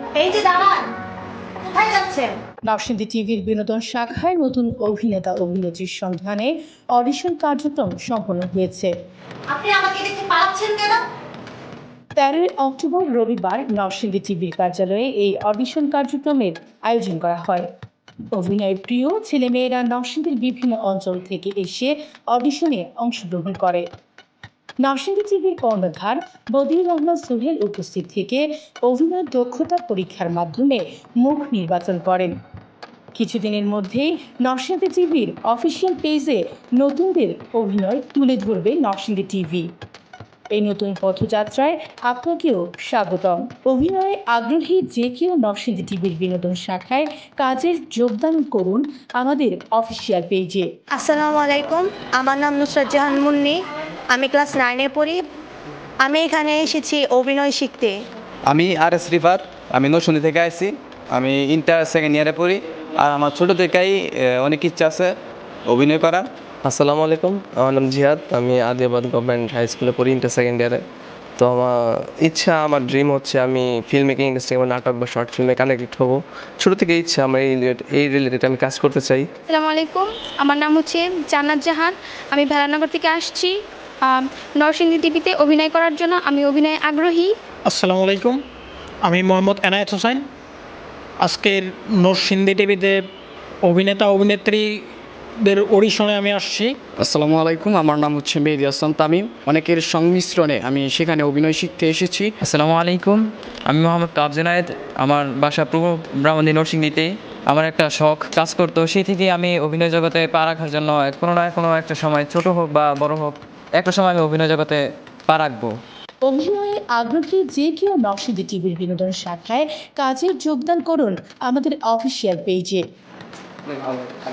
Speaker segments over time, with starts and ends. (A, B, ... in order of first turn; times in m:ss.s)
0:00.2-0:00.9 A
0:01.6-0:02.4 A
0:02.6-0:08.9 B
0:09.5-0:11.0 A
0:12.2-0:17.7 B
0:18.3-0:23.9 B
0:24.8-0:32.4 B
0:33.1-0:39.7 B
0:40.5-0:50.7 B
0:50.9-0:55.2 A
0:56.0-0:58.0 A
0:58.5-1:05.1 C
1:05.7-1:06.2 C
1:06.6-1:10.8 D
1:11.4-1:19.3 D
1:19.5-1:23.5 E
1:24.0-1:27.3 E
1:27.7-1:28.4 F
1:29.0-1:30.2 F
1:31.2-1:33.0 F
1:33.6-1:34.8 F
1:35.4-1:36.7 F
1:37.0-1:42.3 G
1:42.4-1:55.8 H
1:56.2-2:02.8 B